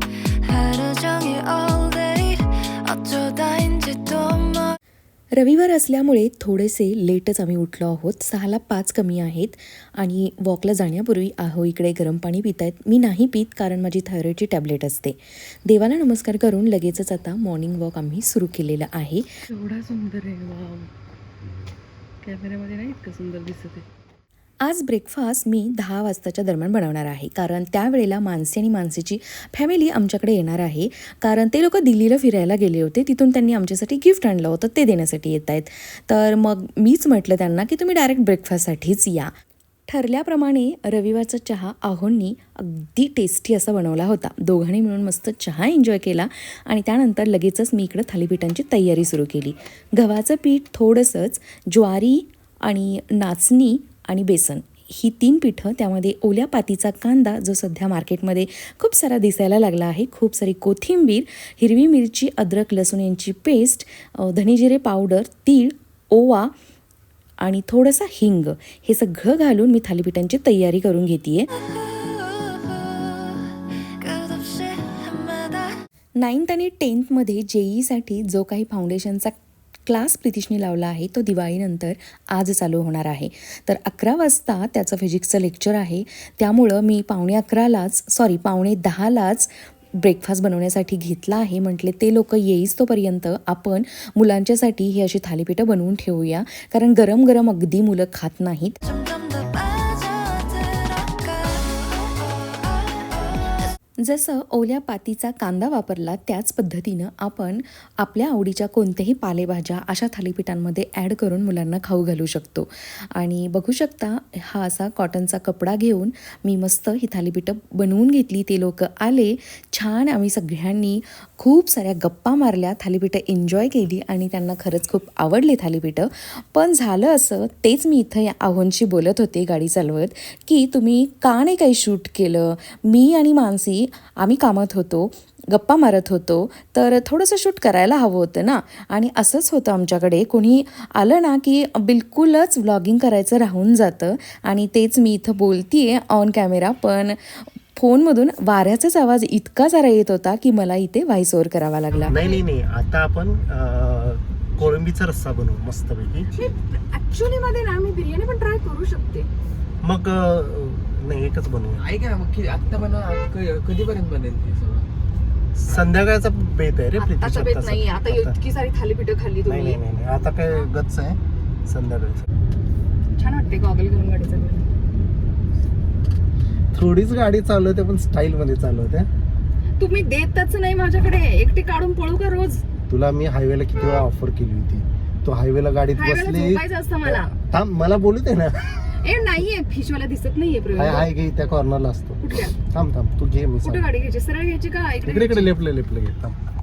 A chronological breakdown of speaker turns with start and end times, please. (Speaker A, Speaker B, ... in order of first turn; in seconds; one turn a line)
Speaker A: 0.4-4.8
Speaker B: 5.3-19.4
Speaker C: 19.5-20.9
Speaker C: 22.2-23.8
Speaker B: 24.6-39.3
Speaker B: 39.9-66.5
Speaker B: 67.4-71.5
Speaker A: 71.6-75.8
Speaker B: 76.2-79.3
Speaker B: 79.9-98.8
Speaker A: 98.8-103.3
Speaker B: 104.0-152.1
Speaker D: 152.0-156.3
Speaker C: 152.1-152.4
Speaker C: 156.3-159.3
Speaker D: 159.8-161.9
Speaker E: 161.8-164.9
Speaker D: 165.6-168.3
Speaker C: 167.0-169.8
Speaker D: 169.4-172.3
Speaker C: 173.1-174.7
Speaker D: 176.7-179.1
Speaker C: 179.8-182.6
Speaker D: 182.9-188.6
Speaker C: 185.9-187.4
Speaker C: 188.8-191.1
Speaker D: 190.7-193.9
Speaker C: 192.2-192.6
Speaker C: 193.6-195.5
Speaker D: 195.0-196.4